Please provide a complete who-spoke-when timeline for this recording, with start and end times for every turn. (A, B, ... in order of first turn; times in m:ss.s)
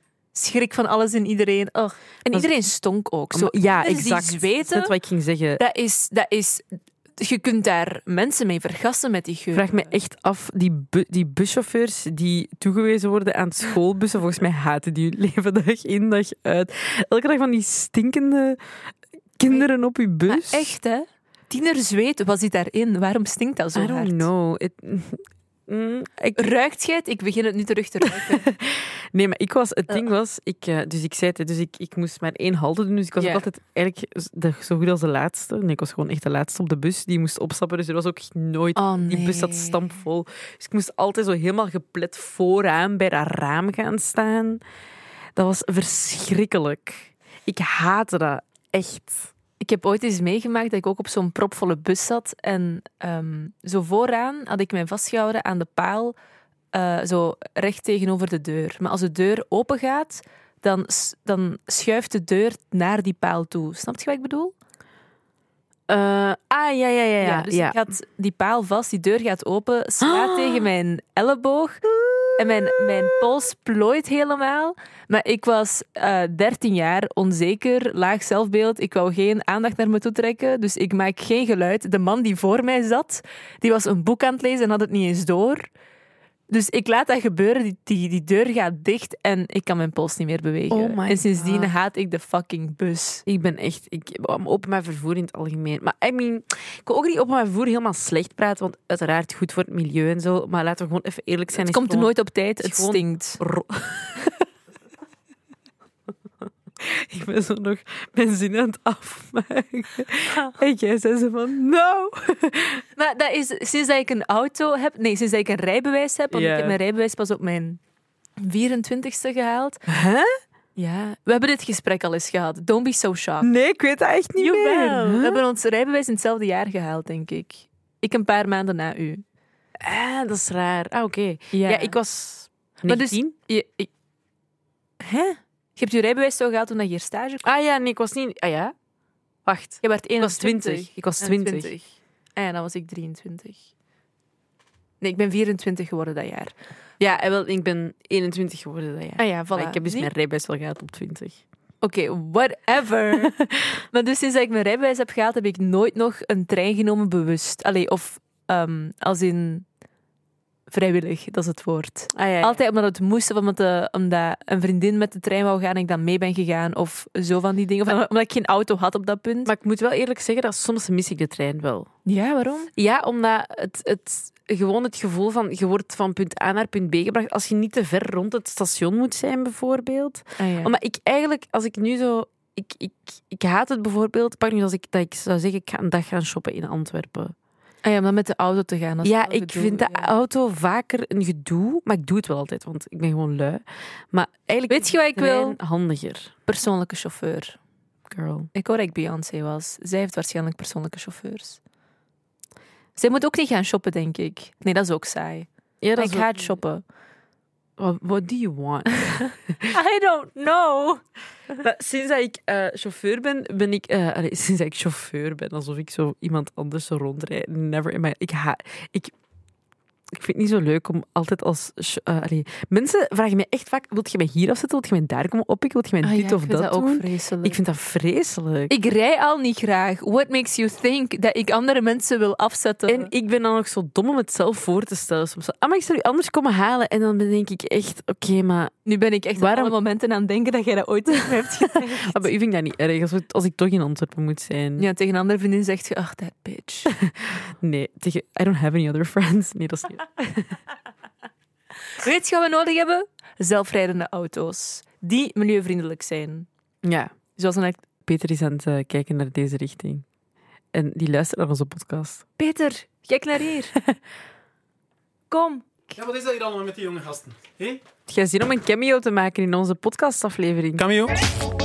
0:00.3-0:04.9 A
0:02.3-0:02.5 B
0:03.3-0:05.6 B
0:05.6-0:09.9 A
0:09.5-0:18.6 B
0:19.4-0:20.7 B
0:20.3-0:24.3 A
0:23.8-0:26.5 B
0:26.4-0:28.5 A
0:28.1-0:44.6 B
0:33.2-0:33.4 A
0:38.8-0:39.9 A
0:45.4-0:49.3 B
0:49.6-0:56.2 A
0:56.7-1:04.6 A
1:05.9-1:07.8 B
1:07.2-1:11.8 A
1:10.0-1:10.7 B
1:12.0-1:13.1 B
1:12.4-1:25.7 A
1:26.5-1:33.2 A
1:30.7-1:31.7 B
1:33.3-1:44.4 B
1:41.6-1:43.4 A
1:46.8-1:52.8 B
1:53.0-1:57.8 A
1:56.3-1:56.8 B
1:58.4-1:59.8 A
1:59.9-2:00.3 B
2:00.8-2:03.5 A
2:03.4-2:05.4 B
2:04.4-2:09.2 A
2:09.8-2:13.3 B
2:11.5-2:12.0 A
2:12.9-2:13.9 A
2:15.0-2:17.4 A
2:17.4-2:18.7 B
2:19.4-2:21.7 B
2:19.8-2:23.6 A
2:25.0-2:26.5 A
2:27.0-2:31.4 B
2:29.2-2:30.1 A
2:31.8-2:33.4 A
2:33.4-2:33.8 B
2:33.9-2:39.7 A
2:40.7-2:49.5 A
2:42.1-2:42.6 B
2:49.4-2:51.9 B
2:52.1-2:52.7 A
2:52.8-3:07.4 B
3:00.4-3:00.7 A
3:07.8-3:10.1 A
3:09.0-3:16.3 B
3:14.7-3:15.6 A
3:16.5-3:17.6 A
3:18.1-3:18.5 B
3:18.5-3:21.6 A
3:23.0-3:26.8 A
3:25.8-3:26.5 B
3:27.8-3:29.8 B
3:29.7-3:31.0 A
3:31.6-3:39.1 B
3:40.1-3:48.7 B
3:46.0-3:47.6 A
3:48.7-3:53.1 A
3:52.9-3:58.7 B
3:58.9-4:02.3 A
3:59.4-3:59.7 B
4:01.1-4:04.9 B
4:04.8-4:06.9 A
4:06.9-4:10.6 B
4:12.0-4:16.5 A
4:16.8-4:17.1 B
4:17.4-4:17.8 A
4:18.0-4:20.0 B
4:20.7-4:22.2 B
4:22.4-4:23.8 A
4:25.3-4:25.9 A
4:26.0-4:27.8 C
4:28.1-4:30.8 B
4:30.8-4:31.2 C